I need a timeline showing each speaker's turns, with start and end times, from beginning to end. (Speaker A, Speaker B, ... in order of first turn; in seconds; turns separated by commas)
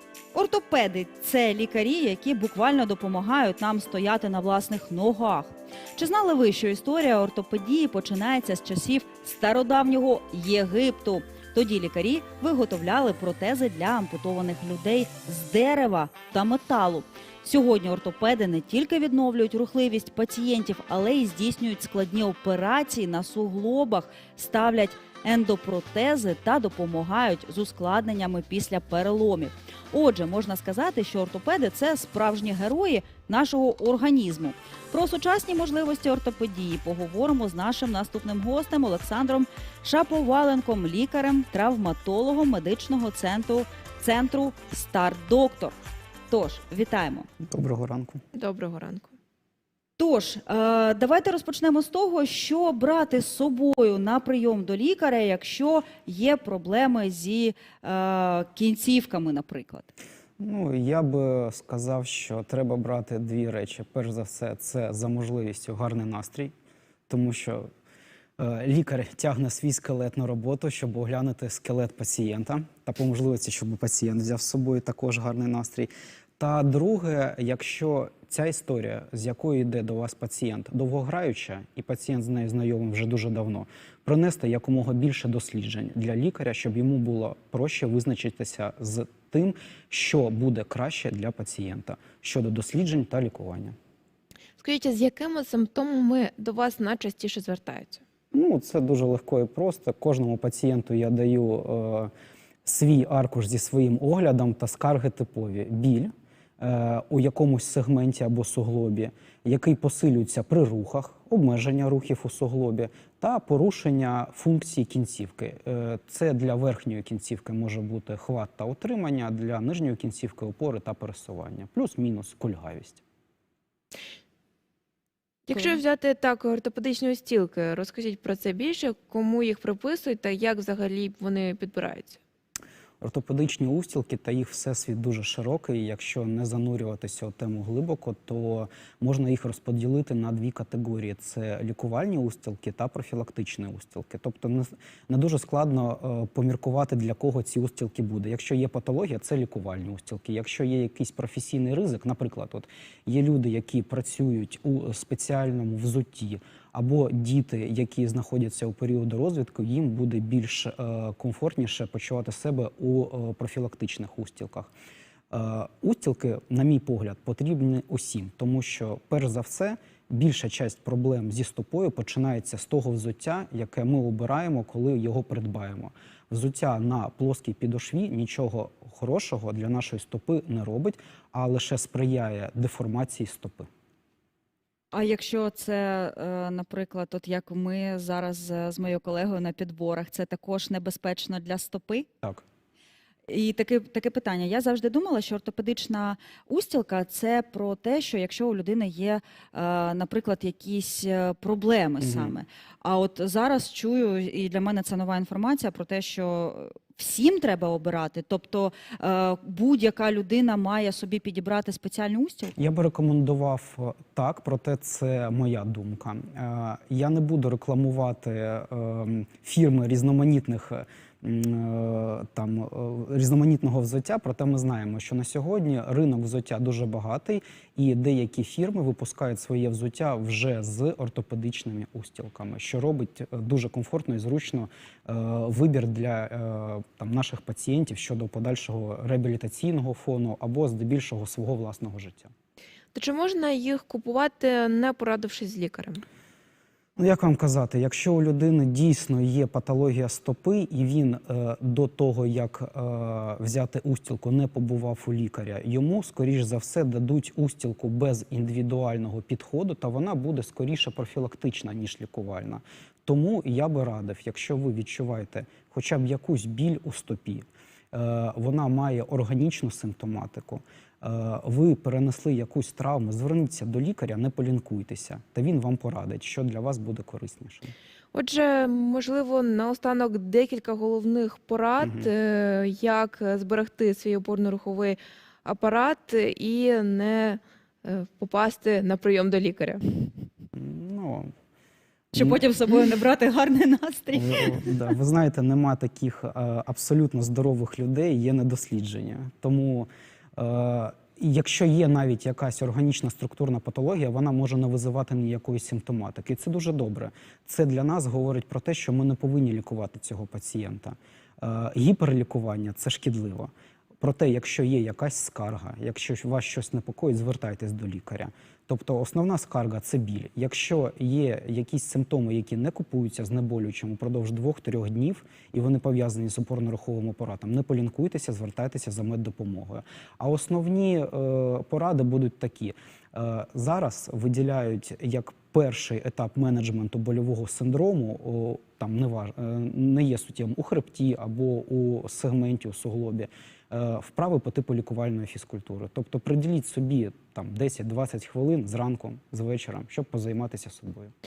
Speaker A: 0.3-45.8, Speaker A: 46.3-47.3, Speaker B: 47.4-48.2, Speaker C: 48.3-49.1, Speaker A: 50.0-59.9, Speaker B: 60.4-66.5, Speaker B: 67.1-67.7, Speaker B: 68.4-93.7, Speaker C: 94.6-98.0, Speaker B: 98.3-102.1, Speaker B: 102.6-123.0, Speaker C: 125.5-132.2, Speaker B: 133.0-164.7, Speaker B: 165.3-183.7, Speaker A: 184.9-192.1, Speaker A: 193.3-212.5, Speaker B: 202.0-202.3, Speaker B: 212.6-242.3, Speaker C: 242.9-246.0, Speaker B: 247.0-277.7, Speaker C: 278.1-289.8, Speaker B: 281.8-282.1, Speaker B: 290.6-291.3, Speaker A: 292.1-294.8, Speaker B: 292.1-292.4, Speaker B: 294.1-351.1